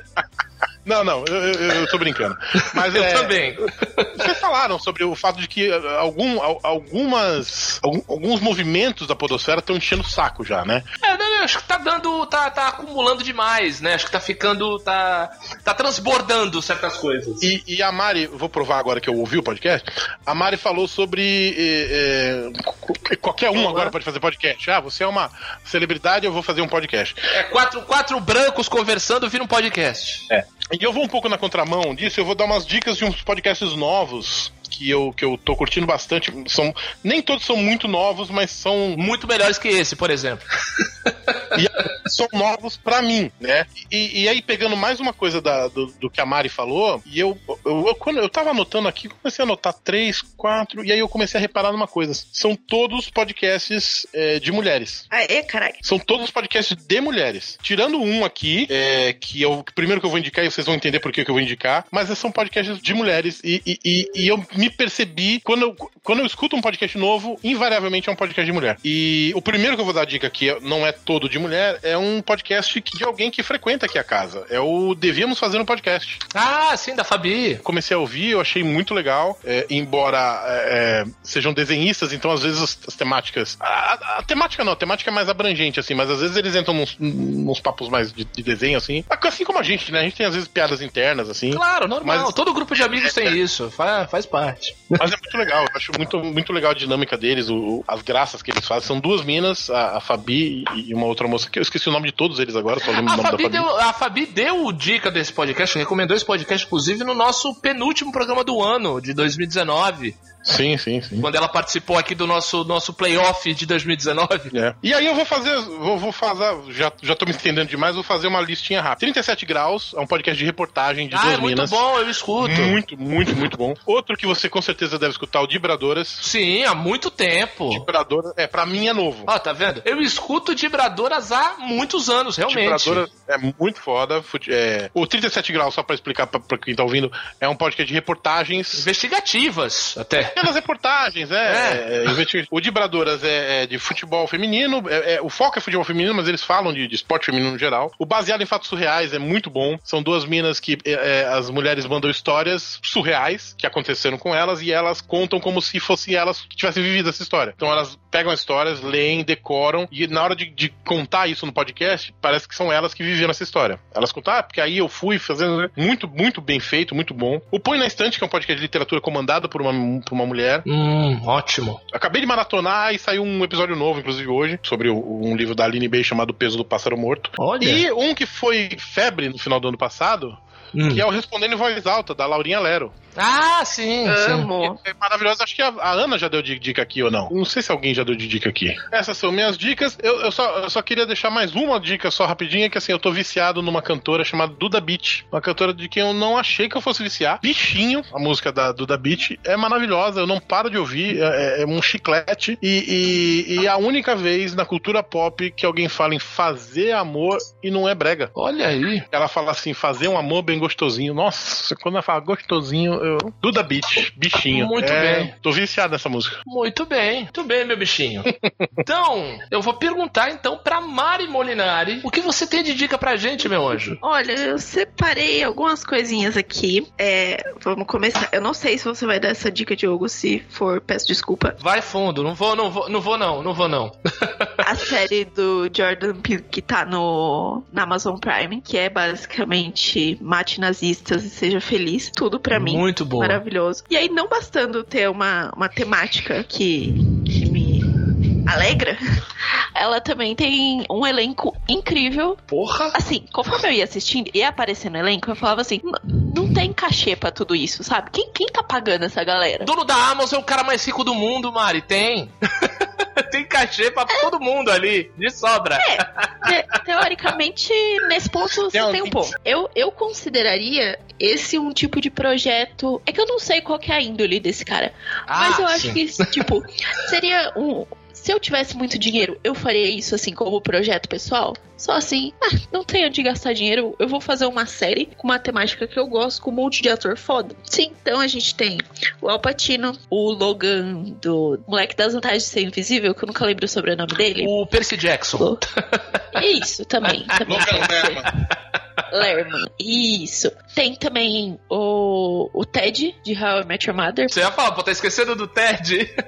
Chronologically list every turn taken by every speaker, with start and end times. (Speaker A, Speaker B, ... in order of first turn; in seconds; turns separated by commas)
Speaker A: 0.8-3.4, Speaker B: 2.7-4.3, Speaker A: 4.2-10.9, Speaker B: 11.0-17.5, Speaker A: 17.4-27.2, Speaker B: 23.6-23.9, Speaker B: 27.3-30.2, Speaker A: 30.3-39.0, Speaker B: 39.0-40.4, Speaker A: 41.5-55.0, Speaker C: 55.1-55.8, Speaker A: 55.8-76.2, Speaker B: 76.3-77.6, Speaker A: 77.6-92.3, Speaker B: 91.5-95.0, Speaker A: 93.0-93.4, Speaker A: 95.0-103.7, Speaker B: 103.0-110.2, Speaker A: 110.4-111.3, Speaker B: 111.2-114.5, Speaker A: 114.5-121.8, Speaker B: 121.1-122.8, Speaker A: 122.4-126.2, Speaker B: 126.2-127.9, Speaker A: 127.7-129.3, Speaker B: 129.3-133.1, Speaker A: 132.5-138.9, Speaker B: 138.7-140.4, Speaker A: 140.4-170.7, Speaker B: 141.4-142.1, Speaker B: 170.7-171.8, Speaker A: 171.9-182.9, Speaker B: 177.4-177.8, Speaker B: 180.7-181.1, Speaker B: 183.2-184.5, Speaker C: 184.1-184.8, Speaker A: 184.6-208.3, Speaker B: 208.4-209.1, Speaker A: 209.1-216.4, Speaker B: 214.5-215.3, Speaker B: 216.5-218.3, Speaker B: 218.8-224.0, Speaker C: 224.0-231.6, Speaker B: 231.6-234.5, Speaker C: 234.6-249.0, Speaker B: 242.5-243.4, Speaker C: 249.8-252.4, Speaker B: 252.5-253.0, Speaker C: 252.9-259.7, Speaker B: 259.6-266.4, Speaker C: 265.8-294.6, Speaker A: 268.7-269.3, Speaker B: 275.3-276.4, Speaker B: 294.4-296.2, Speaker C: 296.3-298.3, Speaker A: 297.4-298.3, Speaker C: 299.1-304.3, Speaker B: 304.3-306.1